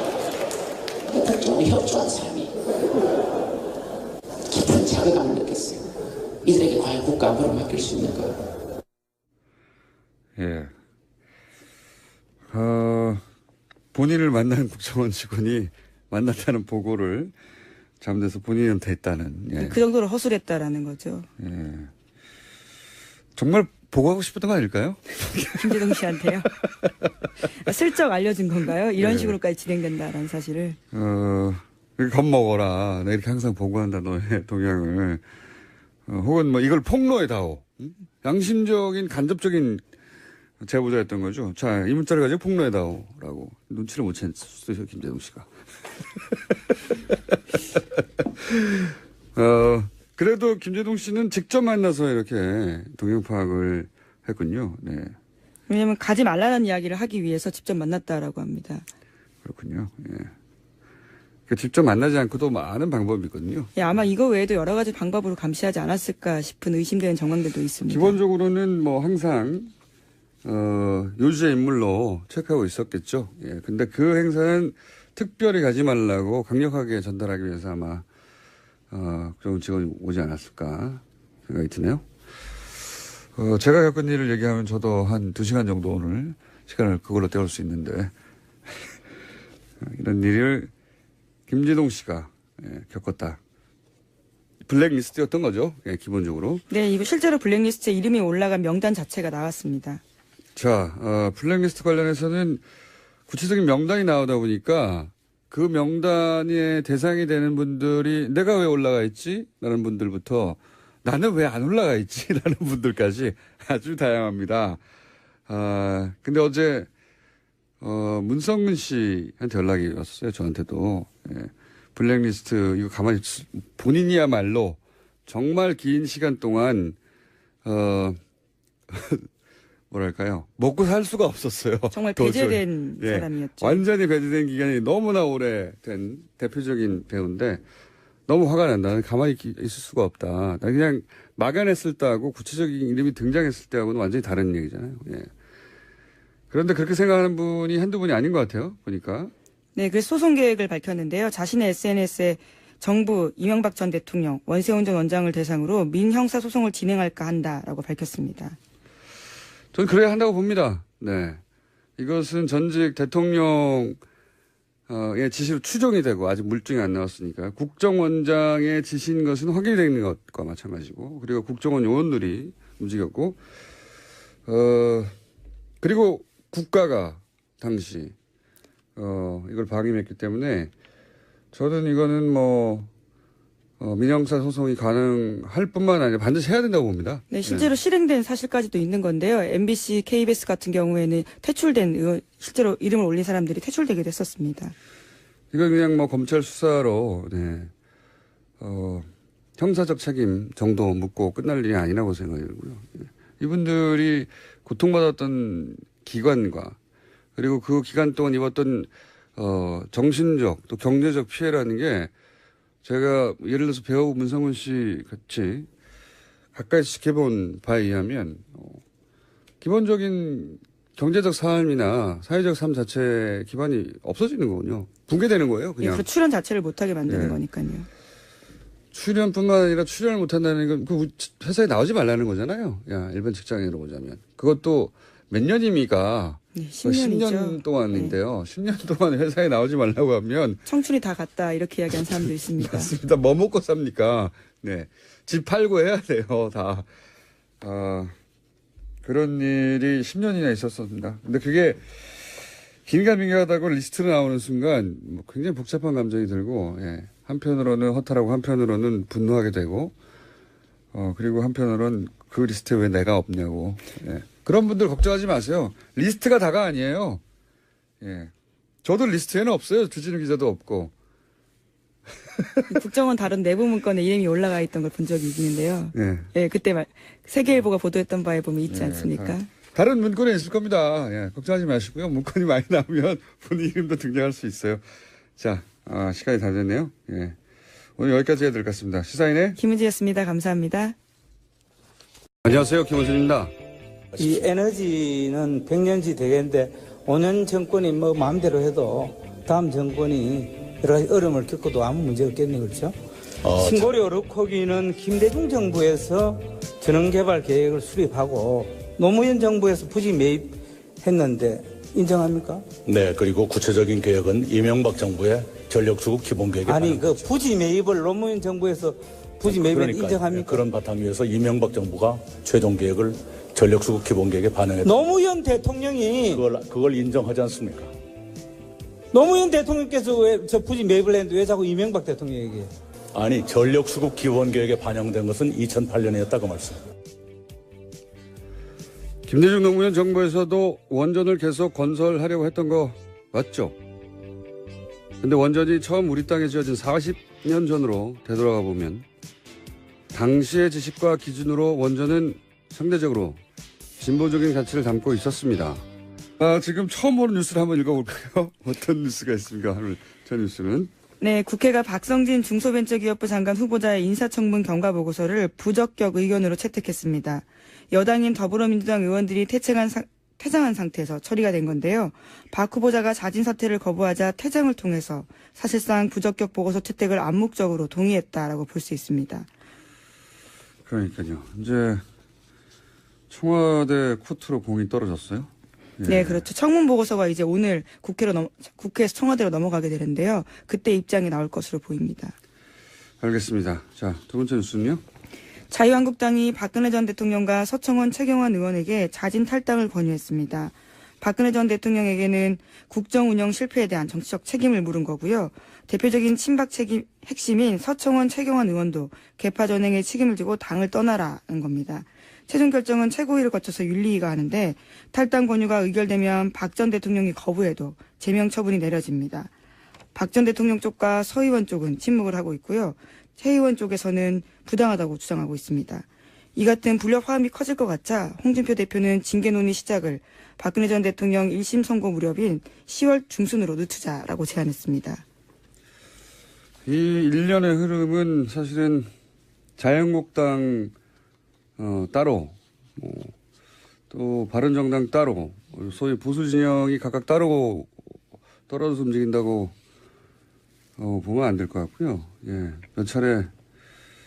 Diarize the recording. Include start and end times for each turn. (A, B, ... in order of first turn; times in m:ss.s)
0:01.0-0:02.6 A
0:04.5-0:05.9 A
0:06.4-0:08.4 A
0:10.4-0:10.7 B
0:12.5-0:13.2 B
0:13.9-0:17.3 B
0:18.0-0:19.8 B
0:19.6-0:21.3 C
0:21.4-0:21.9 B
0:23.4-0:26.0 B
0:25.6-0:26.5 C
0:27.6-0:30.8 C
0:29.0-0:29.4 B
0:30.9-0:35.2 B
0:36.1-0:39.8 B
0:40.6-0:45.5 B
0:48.4-0:55.2 B
0:55.7-0:58.9 C
0:59.4-1:00.3 B
1:01.5-1:03.7 B
1:03.8-1:08.2 C
1:07.9-1:09.7 B
1:10.4-1:18.0 B
1:18.9-1:22.0 B
1:23.4-1:28.1 B
1:29.8-1:30.7 B
1:31.5-1:33.4 B
1:34.7-1:36.6 B
1:36.7-1:40.0 C
1:40.6-1:42.6 B
1:43.3-1:54.8 B
1:55.5-1:56.9 B
1:57.8-2:07.0 B
2:07.6-2:08.2 B
2:08.9-2:09.3 B
2:09.9-2:17.6 B
2:11.9-2:13.8 C
2:18.3-2:25.3 B
2:26.5-2:29.3 B
2:29.8-2:38.6 C
2:39.7-2:41.4 B
2:42.0-2:44.0 B
2:44.9-2:53.4 B
2:54.5-2:55.1 B
2:55.8-2:58.1 B
2:59.0-3:00.7 B
3:01.5-3:02.9 B
3:03.8-3:07.7 B
3:07.3-3:14.7 C
3:15.5-3:17.7 B
3:18.6-3:26.8 B
3:27.4-3:32.1 B
3:32.8-3:35.7 B
3:36.5-3:38.8 B
3:39.6-3:46.1 B
3:45.8-3:47.9 C
3:47.1-3:47.4 B
3:48.9-4:00.6 B
3:56.6-3:58.2 C
4:00.7-4:02.9 C
4:02.6-4:06.9 B
4:07.6-4:08.1 B
4:09.0-4:11.8 B
4:12.9-4:19.9 B
4:20.9-4:27.2 B
4:28.0-4:28.3 B
4:28.8-4:30.9 B
4:32.4-4:32.8 B
4:32.7-4:39.5 C
4:35.9-4:36.3 B
4:38.7-4:44.8 B
4:45.4-4:47.4 B
4:48.0-4:49.6 B
4:49.6-4:51.0 C
4:52.4-4:53.5 B
4:54.2-4:54.4 D
4:54.2-5:03.0 E
5:03.4-5:03.9 D
5:03.6-5:12.7 E
5:12.8-5:17.2 D
5:16.7-5:20.6 E
5:19.4-5:25.0 D
5:24.8-5:26.4 E
5:26.3-5:27.9 D
5:29.1-5:32.7 E
5:33.1-5:36.8 D
5:39.3-5:43.8 B
5:45.2-5:49.1 B
5:50.1-5:53.4 B
5:54.0-5:55.8 B
5:56.4-6:00.9 B
6:01.2-6:19.5 C
6:20.9-6:22.0 B
6:23.3-6:26.4 B
6:26.1-6:32.4 C
6:33.2-6:35.0 B
6:35.7-6:59.5 C
7:00.2-7:15.2 C
7:16.9-7:19.1 B
7:19.8-7:20.9 B
7:21.8-7:23.3 B
7:24.1-7:27.9 B
7:28.7-7:29.8 B
7:31.0-7:33.5 B